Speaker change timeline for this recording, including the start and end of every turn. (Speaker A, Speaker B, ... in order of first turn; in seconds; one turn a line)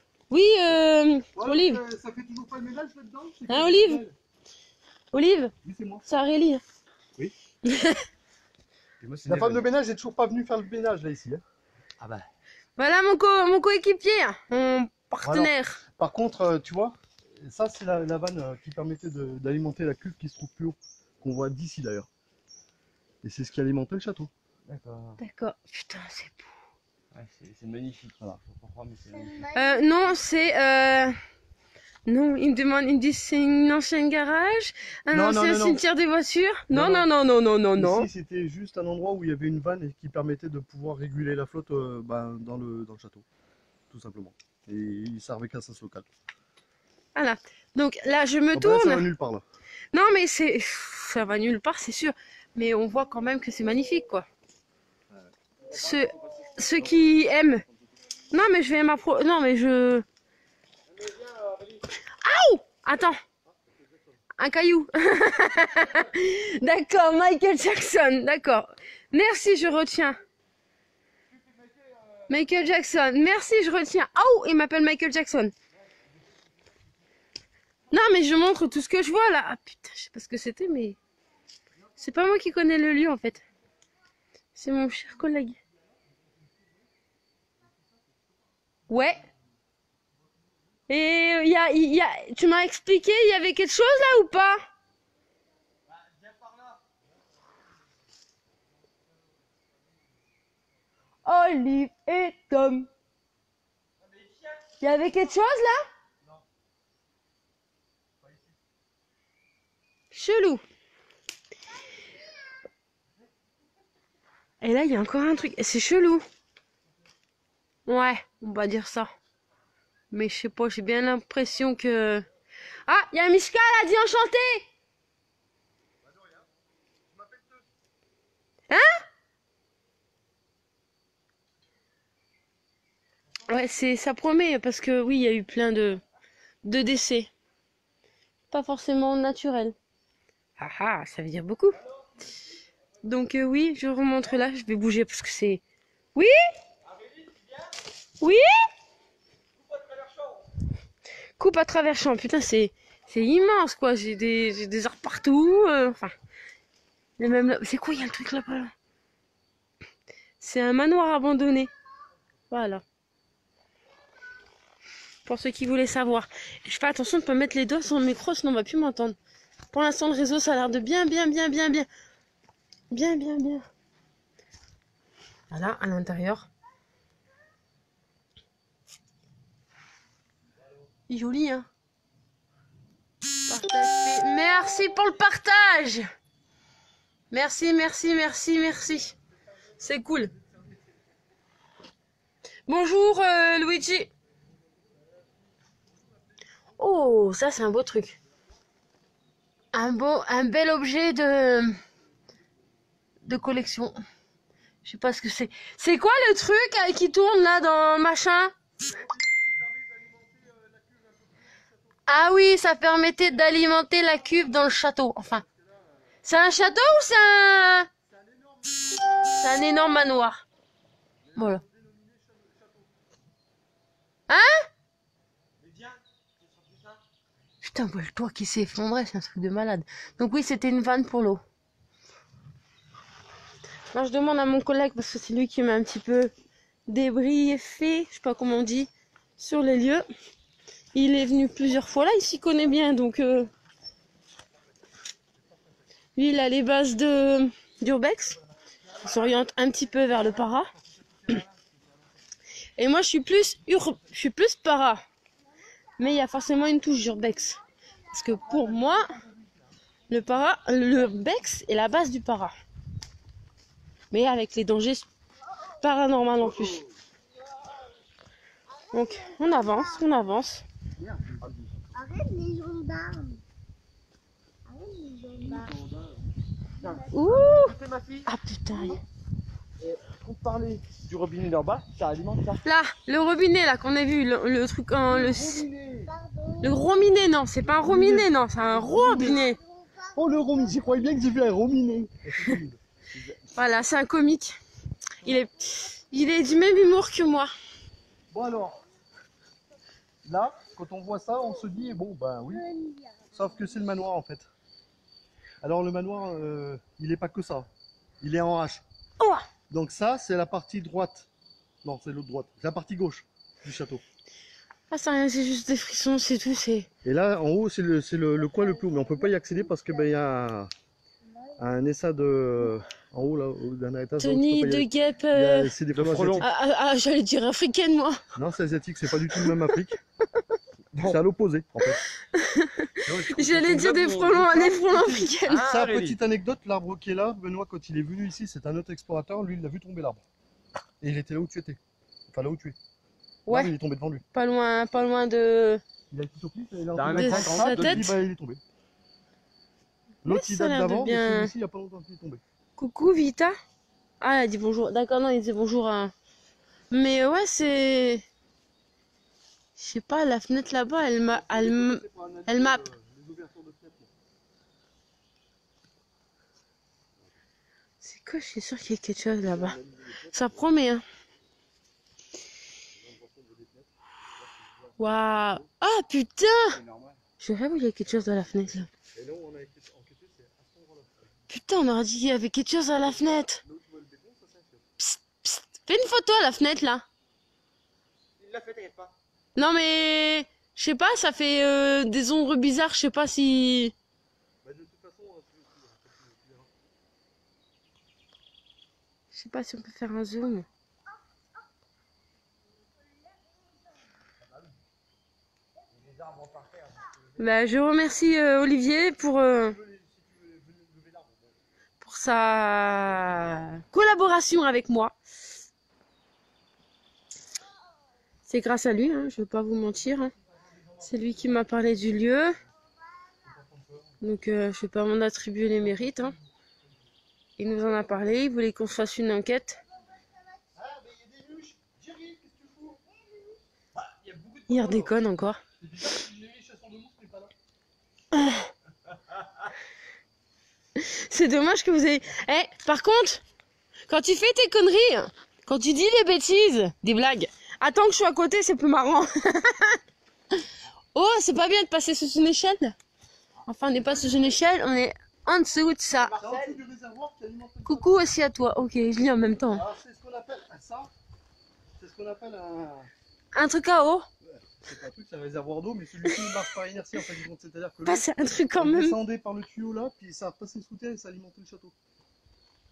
Speaker A: 0.3-1.8
Speaker B: 1.4-4.1
Speaker A: 3.5-4.0
Speaker A: 5.1-5.5
Speaker B: 5.6-6.0
Speaker A: 6.0-6.6
Speaker A: 7.6-8.0
Speaker C: 9.0-9.6
Speaker B: 9.2-11.4
Speaker C: 12.0-12.2
Speaker A: 12.8-15.8
Speaker B: 15.2-22.1
Speaker B: 23.2-24.3
Speaker C: 24.7-25.2
Speaker A: 25.2-26.5
Speaker C: 27.1-29.4
Speaker D: 29.1-29.9
Speaker A: 29.5-31.2
Speaker A: 32.0-38.1
Speaker B: 35.1-35.8
Speaker B: 36.7-37.1
Speaker B: 37.8-43.2
Speaker B: 43.9-46.1
Speaker A: 47.1-49.1
Speaker B: 48.5-49.4
Speaker A: 49.9-54.2
Speaker C: 55.7-56.9
Speaker A: 55.7-57.6
Speaker A: 58.3-60.0
Speaker C: 60.9-61.8
Speaker A: 62.2-63.2
Speaker B: 63.5-64.2
Speaker A: 64.4-70.2
Speaker C: 71.3-72.3
Speaker A: 72.3-75.5
Speaker A: 77.9-81.0
Speaker A: 82.0-83.4
Speaker A: 84.5-85.6
Speaker B: 87.8-88.3
Speaker A: 88.9-89.2
Speaker A: 90.9-94.7
Speaker C: 96.0-96.8
Speaker A: 101.2-102.9
Speaker C: 104.1-104.6
Speaker A: 104.8-105.8
Speaker B: 108.2-108.6
Speaker A: 110.1-110.6
Speaker A: 114.6-116.2
Speaker A: 117.9-119.1
Speaker A: 120.1-122.2
Speaker A: 122.8-124.7
Speaker B: 126.1-126.4
Speaker B: 127.1-127.6
Speaker A: 128.7-129.0
Speaker A: 133.5-136.0
Speaker A: 136.6-137.3
Speaker A: 138.5-139.7
Speaker A: 140.6-141.8
Speaker A: 143.0-145.6
Speaker C: 146.8-147.7
Speaker A: 148.2-148.5
Speaker C: 149.6-150.4
Speaker A: 151.4-156.1
Speaker A: 157.2-158.7
Speaker A: 160.4-161.7
Speaker A: 162.5-162.8
Speaker A: 165.2-169.2
Speaker A: 169.7-171.9
Speaker A: 172.9-173.7
Speaker A: 175.5-176.5
Speaker A: 181.1-181.7
Speaker A: 183.5-186.1
Speaker A: 187.3-189.2
Speaker A: 189.8-190.3
Speaker A: 192.7-194.1
Speaker A: 196.8-198.2
Speaker A: 199.7-201.8
Speaker A: 203.2-204.0
Speaker A: 204.8-208.5
Speaker B: 208.8-212.0
Speaker A: 212.1-215.4
Speaker B: 215.4-215.9
Speaker A: 216.2-217.9
Speaker B: 218.0-219.2
Speaker A: 219.3-220.4
Speaker B: 221.2-223.0
Speaker A: 221.3-221.6
Speaker A: 224.3-224.7
Speaker C: 225.6-227.0
Speaker A: 227.6-231.4
Speaker A: 233.9-236.3
Speaker A: 236.9-240.1
Speaker A: 240.9-243.5
Speaker A: 246.2-248.4
Speaker A: 249.0-250.7
Speaker B: 250.8-251.7
Speaker A: 252.8-255.0
Speaker A: 256.0-257.6
Speaker A: 258.1-259.1
Speaker B: 258.7-259.6
Speaker A: 260.1-262.5
Speaker A: 264.1-265.1
Speaker A: 265.8-266.8
Speaker D: 268.9-270.1
Speaker A: 268.9-270.6
Speaker C: 271.0-271.7
Speaker D: 271.9-273.4
Speaker D: 274.7-275.7
Speaker C: 275.4-276.1
Speaker C: 276.8-278.3
Speaker D: 276.8-277.5
Speaker A: 277.1-277.7
Speaker A: 278.2-279.0
Speaker C: 279.8-282.6
Speaker A: 282.6-285.6
Speaker C: 285.1-286.1
Speaker D: 286.1-286.9
Speaker A: 286.6-289.6
Speaker B: 287.7-289.4
Speaker D: 288.8-291.0
Speaker B: 290.1-292.8
Speaker C: 293.1-293.4
Speaker A: 293.5-294.6
Speaker A: 295.2-297.5
Speaker B: 298.3-298.8
Speaker B: 300.2-302.6
Speaker D: 302.5-303.2
Speaker B: 303.3-304.5
Speaker B: 305.6-307.7
Speaker B: 308.2-308.8
Speaker A: 309.2-309.4
Speaker B: 309.7-311.3
Speaker B: 311.8-314.0
Speaker A: 314.9-316.9
Speaker B: 317.0-320.7
Speaker D: 318.8-319.1
Speaker B: 321.6-326.5
Speaker A: 324.2-325.7
Speaker C: 325.9-326.5
Speaker A: 326.4-328.2
Speaker B: 328.3-330.0
Speaker A: 329.4-329.7
Speaker C: 330.9-331.2
Speaker B: 331.0-332.0
Speaker A: 332.0-335.7
Speaker C: 333.1-334.7
Speaker B: 334.4-340.2
Speaker C: 335.4-336.2
Speaker B: 341.0-341.8
Speaker B: 342.3-342.8
Speaker A: 343.5-343.7
Speaker B: 343.5-344.2
Speaker A: 344.3-345.8
Speaker B: 346.1-348.6
Speaker C: 346.9-348.2
Speaker A: 347.1-348.1
Speaker B: 350.2-352.4
Speaker A: 350.2-351.5
Speaker A: 352.8-353.6
Speaker A: 354.2-356.1
Speaker A: 356.9-358.2
Speaker A: 359.8-362.8
Speaker B: 361.3-364.1
Speaker A: 368.0-369.8
Speaker B: 369.4-370.6
Speaker A: 370.3-371.0
Speaker B: 372.9-375.7
Speaker A: 375.0-376.8
Speaker C: 376.7-377.2
Speaker A: 377.4-378.9
Speaker B: 379.1-381.4
Speaker A: 381.5-383.6
Speaker B: 382.9-384.9
Speaker A: 385.0-387.0
Speaker C: 388.4-389.1
Speaker A: 389.6-393.9
Speaker B: 394.6-396.7
Speaker A: 399.3-400.6
Speaker C: 405.9-407.1
Speaker A: 407.4-409.8
Speaker B: 409.5-411.6
Speaker A: 412.0-415.1
Speaker A: 418.5-420.3
Speaker B: 420.4-421.5
Speaker A: 421.0-422.6
Speaker B: 423.4-424.2
Speaker A: 424.2-426.3
Speaker B: 426.2-426.4
Speaker A: 427.6-429.8
Speaker B: 430.7-433.0
Speaker D: 433.1-433.6
Speaker C: 434.1-435.1
Speaker A: 434.7-435.6
Speaker B: 435.8-437.5
Speaker A: 438.3-438.7
Speaker A: 440.9-443.4
Speaker A: 444.1-450.0
Speaker A: 451.1-452.9
Speaker A: 453.6-456.3
Speaker C: 456.1-456.8
Speaker B: 456.3-458.1
Speaker A: 457.9-459.8
Speaker B: 459.7-461.1
Speaker B: 462.0-463.1
Speaker A: 463.5-464.3
Speaker B: 464.4-471.9
Speaker A: 466.2-466.7
Speaker A: 468.1-469.1